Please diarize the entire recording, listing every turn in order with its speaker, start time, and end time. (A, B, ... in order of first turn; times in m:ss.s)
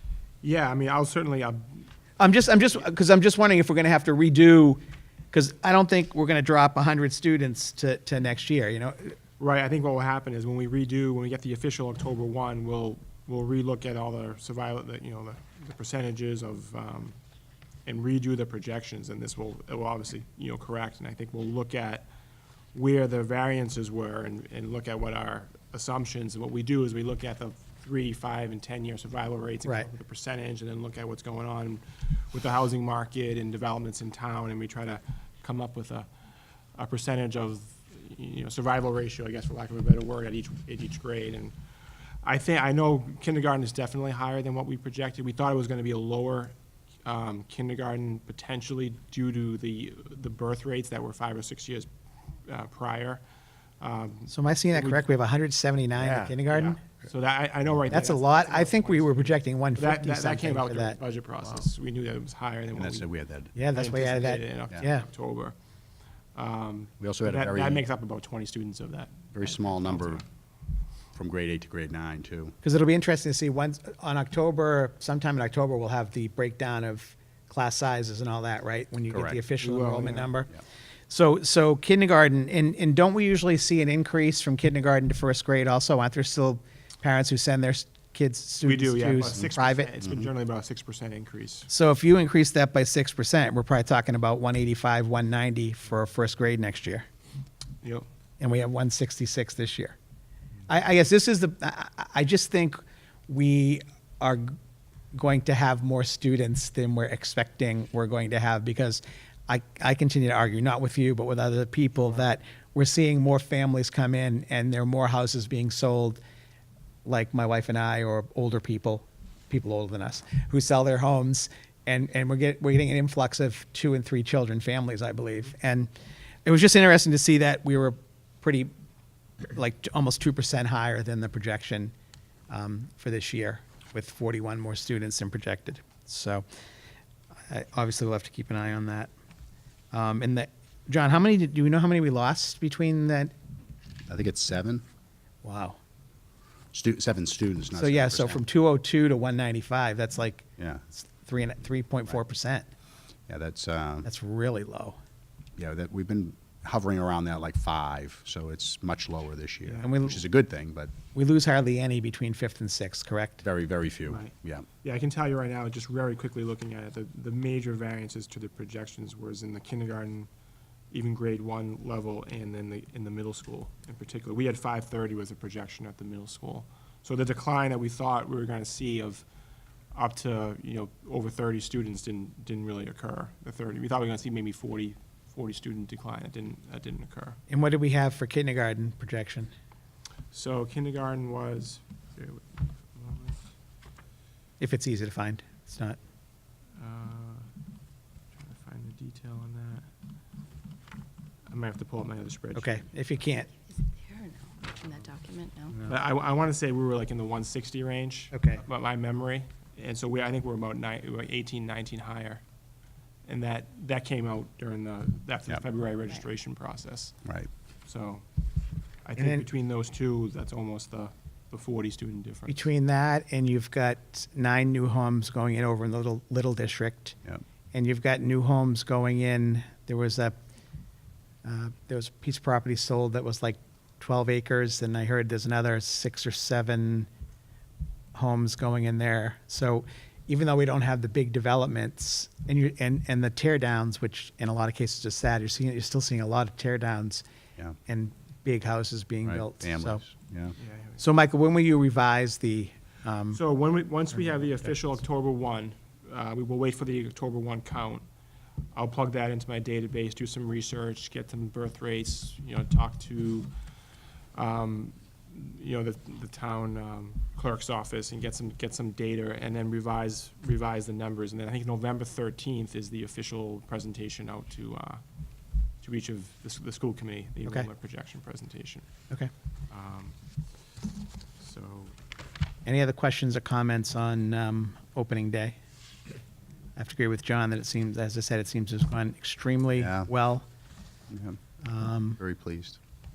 0:00.4-0:01.9 A
0:02.2-0:04.8 B
0:05.3-0:09.2 B
0:09.4-0:17.1 A
0:17.8-0:22.1 A
0:22.7-0:36.1 A
0:36.7-0:41.5 A
0:42.2-0:46.5 A
0:47.0-0:51.9 A
0:52.5-0:53.2 A
0:53.8-0:55.0 A
0:54.3-0:56.8 B
0:56.0-1:05.5 A
0:57.9-1:01.0 B
1:02.8-1:03.5 C
1:03.5-1:05.0 B
1:06.3-1:10.2 A
1:07.0-1:07.8 C
1:09.3-1:10.2 C
1:11.1-1:12.5 C
1:12.6-1:20.5 B
1:19.1-1:19.4 C
1:19.6-1:20.3 A
1:21.1-1:29.9 B
1:28.6-1:31.7 A
1:31.7-1:37.0 B
1:38.4-1:40.0 B
1:40.7-1:44.6 B
1:45.1-1:56.2 B
1:57.0-2:05.9 B
2:06.4-2:08.7 B
2:09.5-2:11.9 B
2:12.5-2:16.4 B
2:17.5-2:19.1 B
2:19.9-2:23.3 B
2:24.1-2:24.8 C
2:25.4-2:25.8 B
2:26.7-2:28.4 C
2:27.8-2:32.7 B
2:30.6-2:30.8 C
2:33.3-2:34.1 C
2:34.0-2:35.0 B
2:35.6-2:40.9 C
2:39.6-2:39.9 A
2:39.8-2:40.2 B
2:41.1-2:43.4 B
2:43.4-2:44.7 C
2:44.1-2:50.3 A
2:50.9-2:59.2 A
2:59.9-3:07.4 A
3:07.5-3:09.5 B
3:10.3-3:13.4 A
3:14.6-3:16.0 B
3:16.8-3:17.5 A
3:18.3-3:19.9 A
3:21.5-3:22.8 A
3:22.5-3:23.5 B
3:23.6-3:25.8 D
3:25.8-3:32.4 A
3:28.3-3:28.6 B
3:33.2-3:37.2 A
3:37.9-3:38.2 A
3:39.0-3:42.7 A
3:39.2-3:39.4 B
3:42.5-3:47.2 B
3:47.7-3:50.4 B
3:51.4-3:57.1 B
3:58.1-4:07.2 B
4:07.8-4:10.0 B
4:09.2-4:10.6 C
4:10.6-4:11.0 A
4:11.0-4:13.4 B
4:13.3-4:18.0 A
4:18.7-4:23.5 A
4:24.3-4:35.0 A
4:35.8-4:38.8 A
4:39.7-4:40.2 A
4:41.4-4:41.9 A
4:42.6-4:45.5 B
4:46.8-4:50.4 B
4:49.8-4:50.1 C
4:51.1-4:51.4 C
4:51.6-4:52.2 B
4:52.2-4:52.8 C